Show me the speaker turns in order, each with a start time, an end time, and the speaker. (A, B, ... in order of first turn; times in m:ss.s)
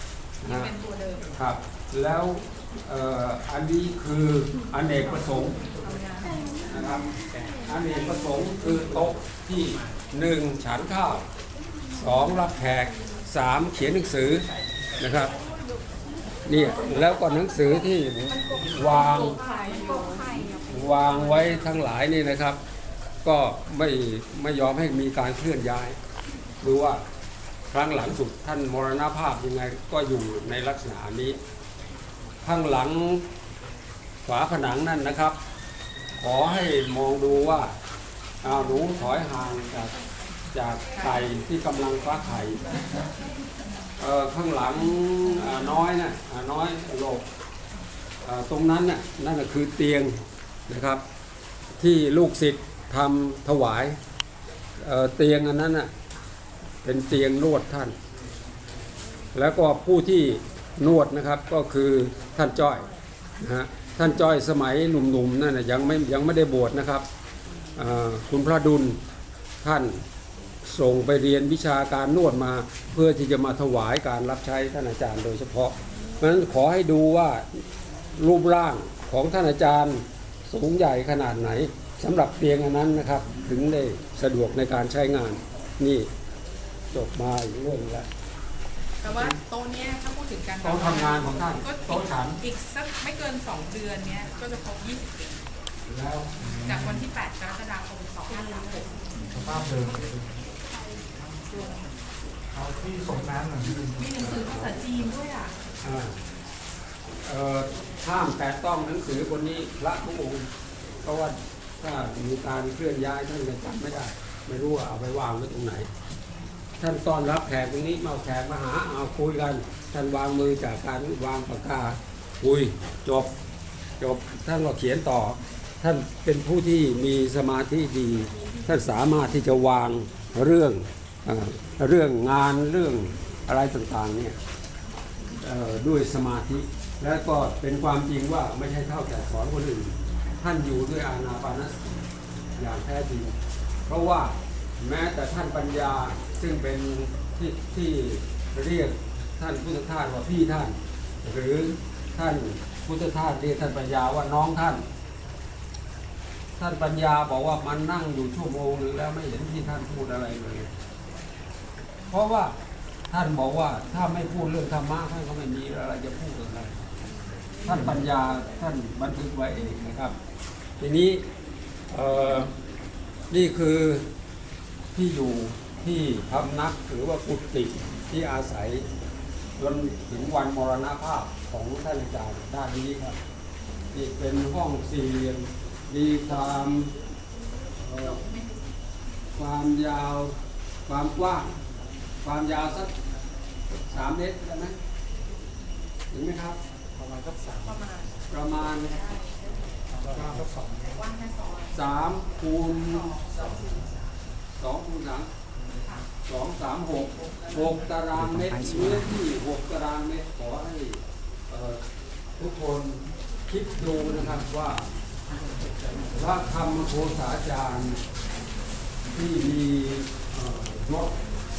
0:00.4-0:00.7 A
0:00.4-0:01.3 B
0:01.4-0:05.6 A
0:06.7-0:07.1 A
0:07.6-0:11.3 A
0:11.9-0:14.4 A
0:15.0-0:15.4 A
0:16.5-0:19.4 A
0:19.4-0:20.2 B
0:20.6-0:22.6 A
0:23.2-0:26.0 A
0:26.6-0:27.0 A
0:27.7-0:31.4 A
0:32.4-0:33.3 A
0:34.2-0:35.4 A
0:36.2-0:37.8 A
0:38.4-0:39.9 A
0:40.5-0:42.8 A
0:44.0-0:47.3 A
0:48.2-0:51.0 A
0:51.8-0:54.0 A
0:54.8-0:55.9 A
0:56.8-0:58.0 A
0:59.4-1:07.1 A
1:07.8-1:09.0 A
1:09.6-1:10.0 A
1:10.6-1:17.6 A
1:18.2-1:26.1 A
1:26.9-1:28.1 A
1:29.0-1:35.4 B
1:30.6-1:32.4 A
1:35.9-1:36.4 A
1:36.4-1:36.9 C
1:36.6-1:39.0 B
1:39.3-1:40.3 C
1:42.5-1:44.4 C
1:44.0-1:45.5 B
1:45.8-1:46.2 A
1:47.2-1:50.5 A
1:51.0-1:55.9 A
1:56.8-2:03.3 A
2:04.0-2:14.4 A
2:15.4-2:22.0 A
2:22.6-2:23.3 A
2:23.9-2:34.8 A
2:36.6-2:40.7 A
2:42.1-2:42.6 A
2:43.1-2:46.8 A
2:47.6-2:50.2 A
2:50.8-2:51.2 A
2:51.9-2:52.6 A
2:53.3-2:54.1 A
2:54.9-2:58.9 A
2:59.6-3:03.2 A
3:03.9-3:06.9 A
3:07.8-3:08.2 A
3:08.1-3:08.5 B
3:09.3-3:11.5 A
3:12.2-3:13.0 A
3:13.7-3:14.8 A
3:16.1-3:16.6 A
3:17.0-3:17.8 C
3:17.6-3:18.2 B
3:18.3-3:19.0 A
3:18.9-3:19.4 B
3:20.0-3:21.0 C
3:20.8-3:21.8 B
3:21.7-3:23.3 A
3:22.8-3:23.5 B
3:24.6-3:25.3 A
3:26.2-3:31.8 A
3:28.3-3:29.1 C
3:32.4-3:34.9 A
3:36.1-3:38.0 A
3:39.1-3:41.2 A